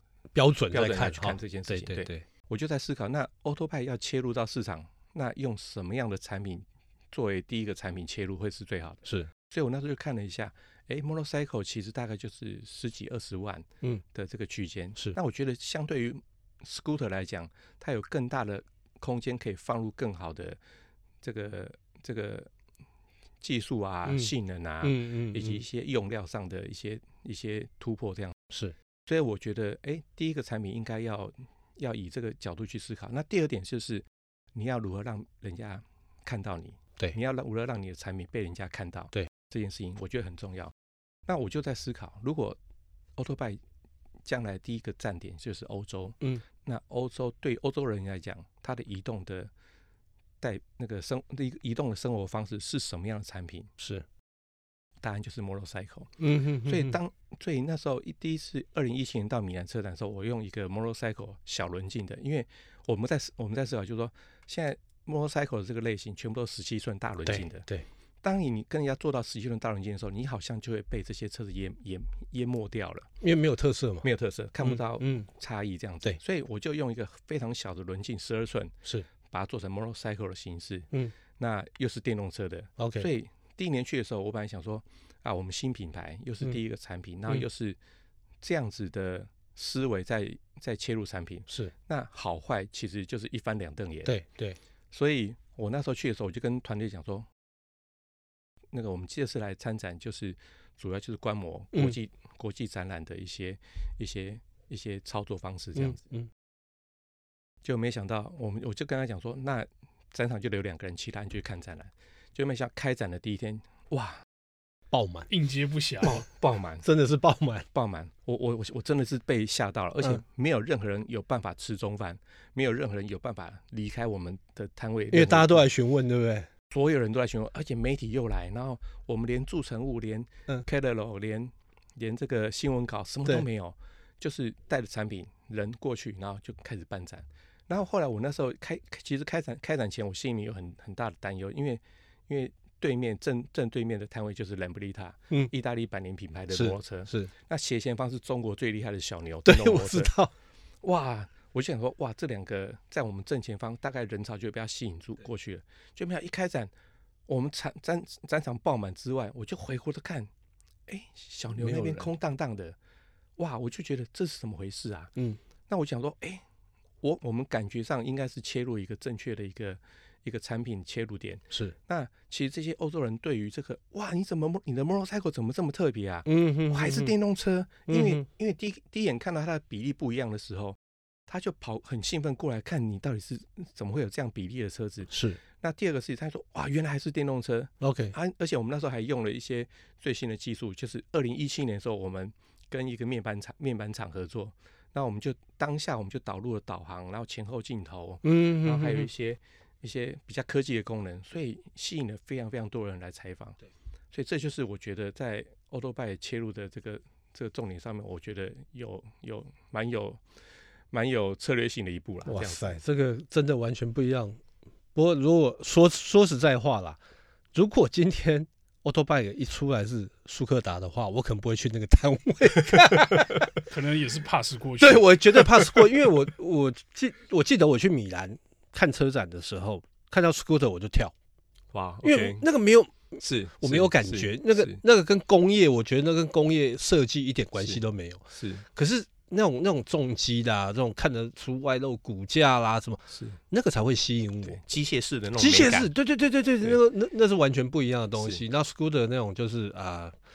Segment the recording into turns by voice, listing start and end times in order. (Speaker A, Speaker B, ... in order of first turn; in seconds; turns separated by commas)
Speaker A: 0.3-2.2, Speaker B: 0.7-20.6, Speaker A: 9.0-9.3, Speaker B: 21.2-22.5, Speaker B: 23.4-28.3, Speaker A: 24.1-24.3, Speaker A: 24.8-25.6, Speaker B: 29.1-40.7, Speaker B: 41.3-42.6, Speaker B: 43.2-43.6, Speaker B: 44.2-49.5, Speaker B: 50.4-53.7, Speaker A: 53.8-54.0, Speaker B: 55.0-67.6, Speaker A: 56.2-57.0, Speaker A: 67.2-67.8, Speaker B: 68.2-73.1, Speaker A: 73.2-74.0, Speaker B: 74.0-78.7, Speaker A: 74.6-75.2, Speaker B: 79.3-87.8, Speaker A: 82.8-83.1, Speaker B: 88.4-94.1, Speaker A: 94.0-94.6, Speaker B: 94.9-97.2, Speaker B: 98.7-106.1, Speaker A: 105.7-106.3, Speaker B: 107.6-114.2, Speaker A: 114.9-115.3, Speaker C: 115.3-116.2, Speaker B: 116.0-116.9, Speaker A: 116.8-117.7, Speaker B: 117.7-125.7, Speaker A: 125.1-126.5, Speaker B: 126.7-150.1, Speaker A: 146.5-147.3, Speaker A: 149.4-150.3, Speaker B: 150.8-156.7, Speaker B: 157.3-160.3, Speaker B: 160.9-162.8, Speaker A: 161.5-162.1, Speaker B: 163.4-165.1, Speaker B: 165.7-166.4, Speaker B: 167.0-180.8, Speaker A: 176.2-177.1, Speaker A: 177.9-178.2, Speaker B: 181.3-203.6, Speaker A: 185.1-185.4, Speaker A: 187.8-188.1, Speaker A: 198.2-199.1, Speaker B: 204.1-210.2, Speaker B: 210.9-212.7, Speaker A: 212.2-214.4, Speaker A: 214.9-217.0, Speaker A: 217.5-223.5, Speaker C: 223.6-225.1, Speaker A: 224.8-231.1, Speaker B: 231.7-232.5, Speaker A: 232.0-238.2, Speaker B: 233.2-234.8, Speaker B: 238.3-238.7, Speaker A: 238.7-244.6, Speaker B: 243.1-243.4, Speaker B: 244.4-245.9, Speaker A: 245.4-250.1, Speaker B: 248.1-248.4